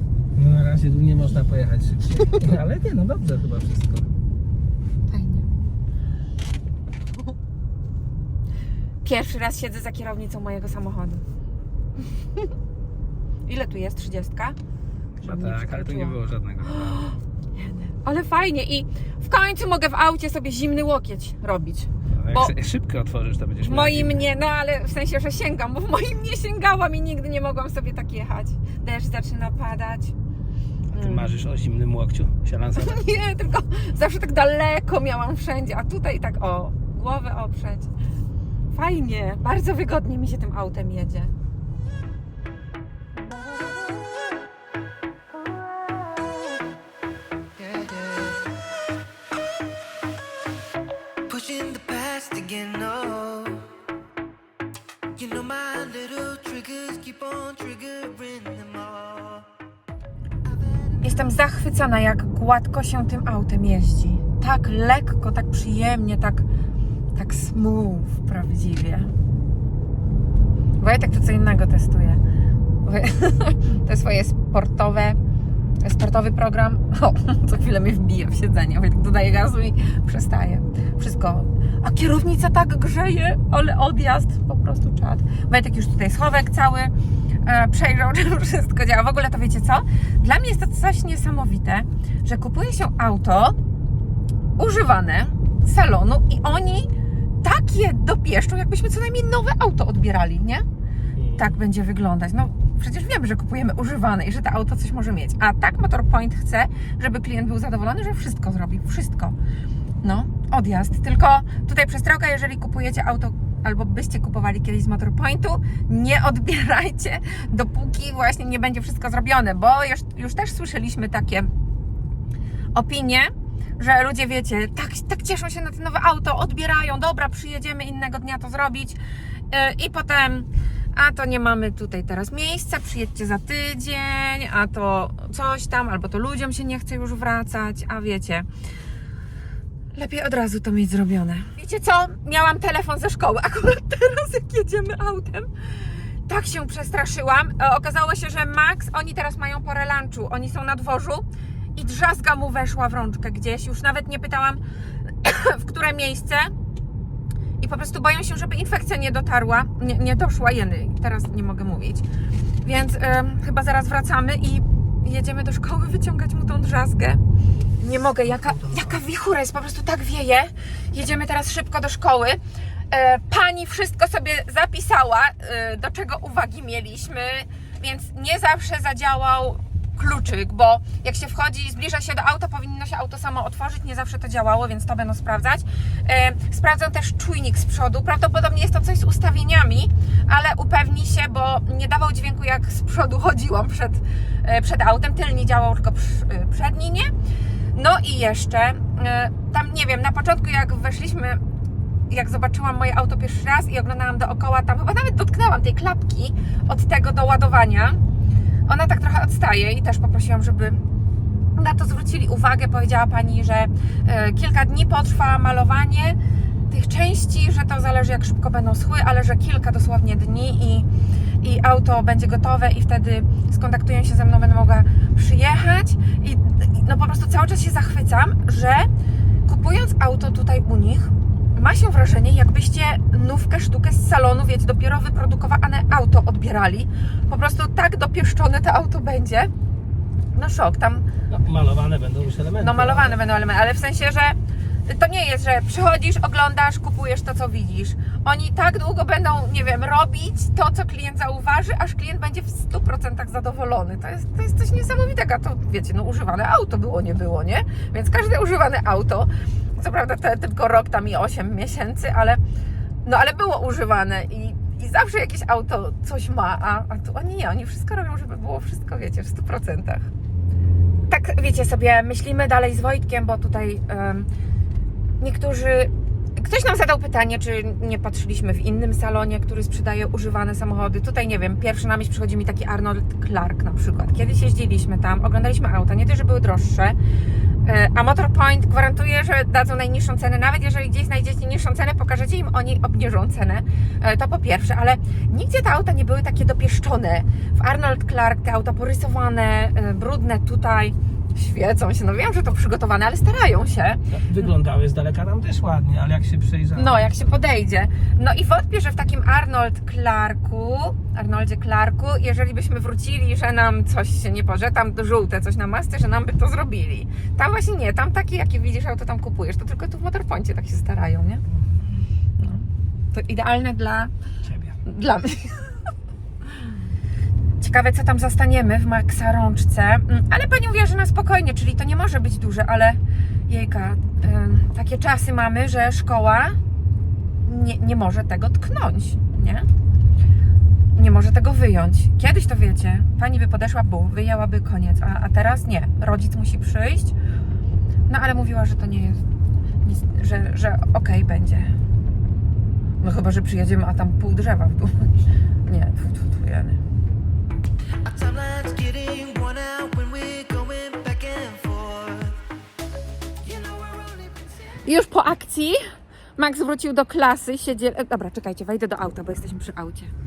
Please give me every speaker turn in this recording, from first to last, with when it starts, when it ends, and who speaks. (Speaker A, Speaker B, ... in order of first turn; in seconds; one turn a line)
Speaker A: 0.3-4.1
Speaker B: 5.1-5.5
Speaker B: 9.0-11.2
Speaker B: 13.5-14.6
Speaker A: 15.2-17.1
Speaker B: 15.2-22.5
Speaker A: 22.1-24.2
Speaker B: 23.6-30.1
Speaker A: 30.9-33.0
Speaker B: 30.9-31.3
Speaker B: 32.8-37.9
Speaker B: 38.7-41.3
Speaker C: 47.6-48.4
Speaker C: 51.3-53.6
Speaker C: 55.1-59.5
Speaker C: 60.5-61.1
Speaker B: 61.0-66.5
Speaker B: 67.1-69.1
Speaker B: 70.8-72.2
Speaker B: 72.8-75.2
Speaker B: 75.8-86.9
Speaker B: 87.4-93.6
Speaker B: 94.6-96.9
Speaker B: 97.4-100.6
Speaker A: 101.2-101.5
Speaker B: 101.3-109.3
Speaker B: 110.0-121.5
Speaker B: 122.7-129.0
Speaker B: 129.5-138.5
Speaker B: 139.9-145.5
Speaker B: 146.3-151.2
Speaker B: 151.8-156.5
Speaker B: 157.6-162.0
Speaker B: 162.6-167.2
Speaker B: 167.8-172.4
Speaker A: 168.3-169.0
Speaker B: 172.9-197.1
Speaker B: 197.7-201.4
Speaker B: 202.1-208.0
Speaker B: 208.7-210.8
Speaker B: 211.6-216.2
Speaker B: 216.7-220.9
Speaker B: 221.4-228.9
Speaker B: 229.5-239.5
Speaker B: 240.3-241.1
Speaker A: 241.3-243.2
Speaker B: 242.6-262.4
Speaker B: 263.0-270.1
Speaker B: 271.1-274.3
Speaker B: 275.2-286.9
Speaker B: 287.6-304.0
Speaker A: 304.1-307.1
Speaker B: 306.7-321.4
Speaker A: 321.5-321.8
Speaker B: 322.4-324.1
Speaker A: 324.4-324.8
Speaker B: 324.9-325.6
Speaker B: 327.6-336.6
Speaker B: 337.4-339.6
Speaker B: 340.9-347.1
Speaker B: 348.1-349.2
Speaker B: 349.8-351.7
Speaker B: 353.0-355.1
Speaker B: 355.6-356.8
Speaker C: 358.0-362.4
Speaker C: 363.4-364.8
Speaker B: 364.8-365.8
Speaker B: 366.4-370.1